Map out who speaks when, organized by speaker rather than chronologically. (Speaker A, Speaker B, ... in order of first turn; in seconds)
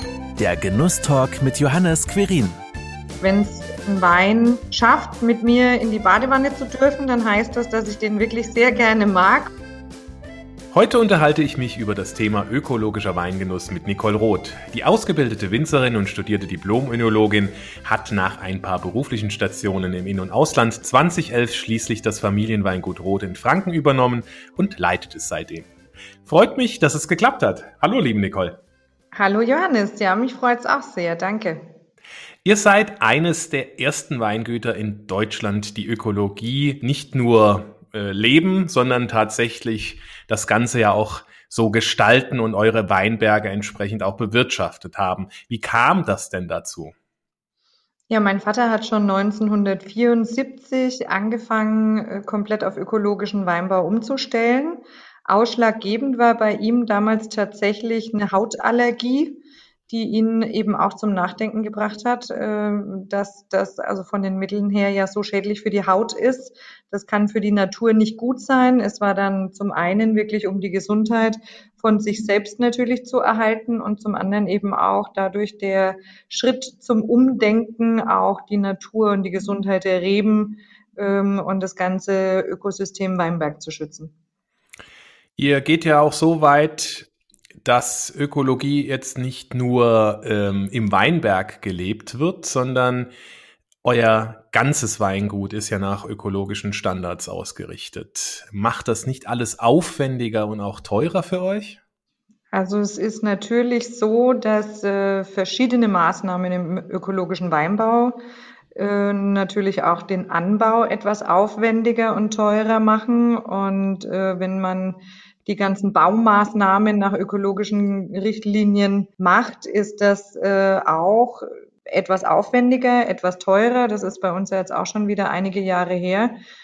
Speaker A: 0.4-2.6
Speaker B: 3.2-9.5, 29.1-31.6, 48.1-84.1, 102.5-108.2, 108.8-126.4
Speaker C: 10.7-25.7, 26.3-28.6, 32.4-46.9, 85.4-87.1, 87.6-93.1, 93.8-101.8